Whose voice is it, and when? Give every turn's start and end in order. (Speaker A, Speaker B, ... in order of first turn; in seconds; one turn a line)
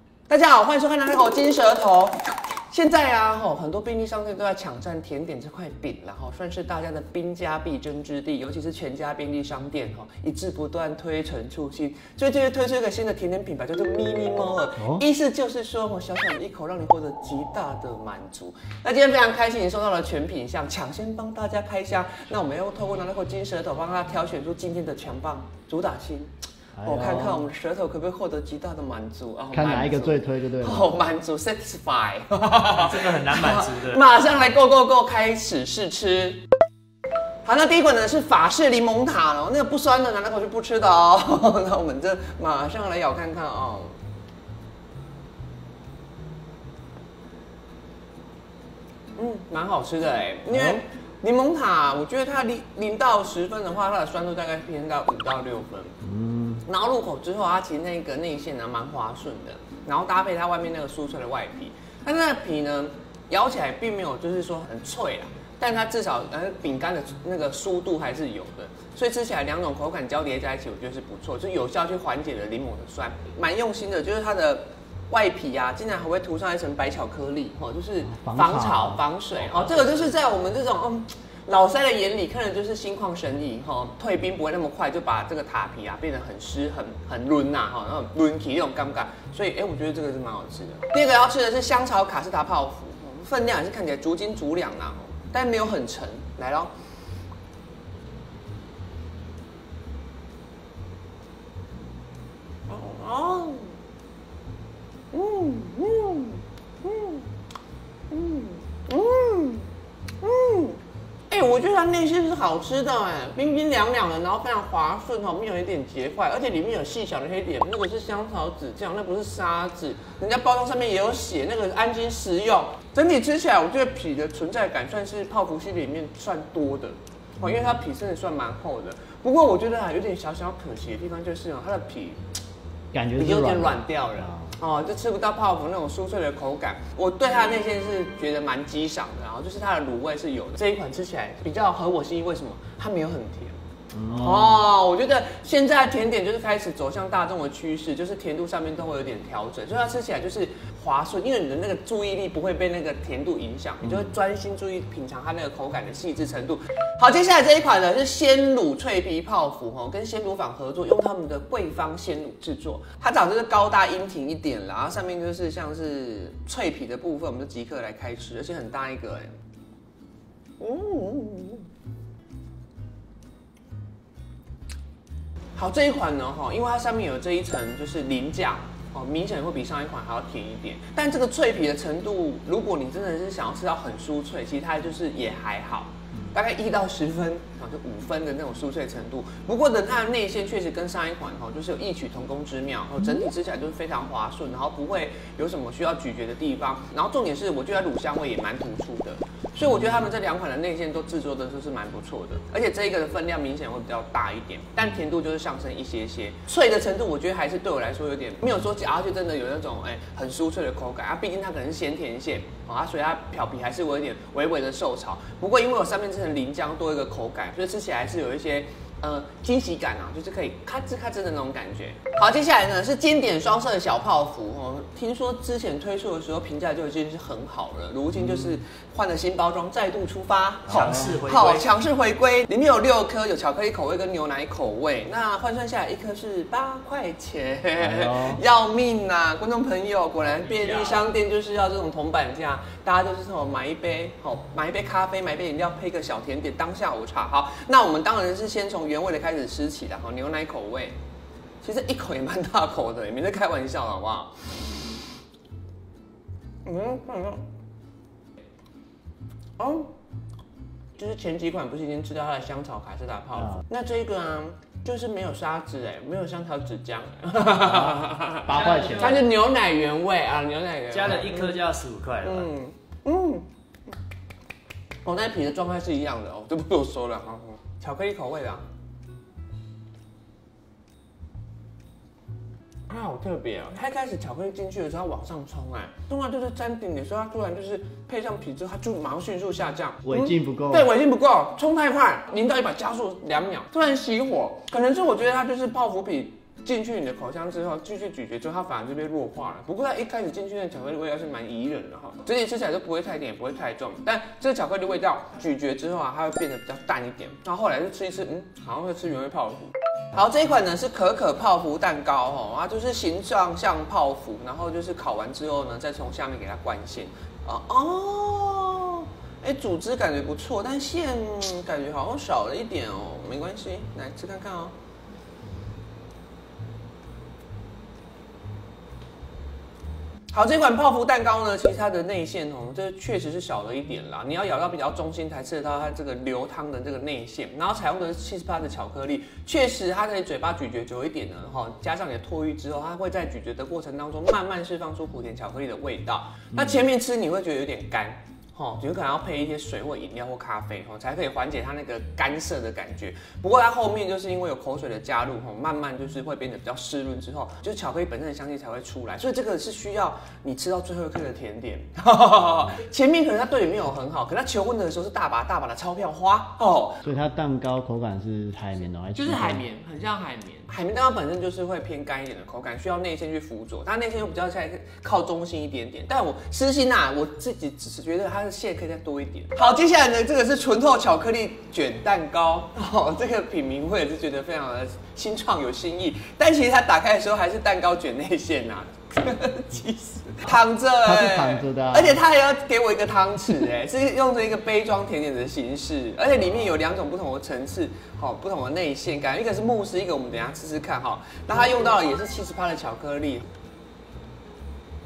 Speaker A: 0.3-36.4
Speaker B: 14.8-15.0
Speaker B: 26.8-27.4
Speaker B: 29.5-30.9
Speaker C: 32.7-34.0
Speaker A: 37.4-44.0
Speaker A: 49.1-56.0
Speaker B: 50.5-50.8
Speaker B: 56.0-56.6
Speaker A: 56.6-96.7
Speaker B: 78.0-79.0
Speaker A: 102.7-103.8
Speaker A: 105.1-107.3
Speaker A: 108.1-109.7
Speaker A: 110.2-132.2
Speaker B: 132.9-134.5
Speaker A: 133.1-143.6
Speaker B: 143.9-144.6
Speaker A: 144.1-169.3
Speaker A: 170.6-171.7
Speaker A: 175.6-250.9
Speaker C: 230.7-231.7
Speaker B: 230.7-231.1
Speaker B: 237.8-238.4
Speaker C: 240.4-241.0
Speaker A: 251.6-254.6
Speaker A: 256.6-257.4
Speaker A: 259.6-259.9
Speaker A: 260.9-271.6
Speaker B: 268.5-269.2
Speaker C: 268.5-269.2
Speaker C: 270.9-272.5
Speaker A: 272.2-273.5
Speaker A: 275.0-278.6
Speaker A: 282.9-324.7
Speaker B: 290.0-290.9
Speaker A: 330.3-367.0
Speaker B: 367.0-369.6
Speaker A: 369.1-403.5
Speaker B: 391.0-392.2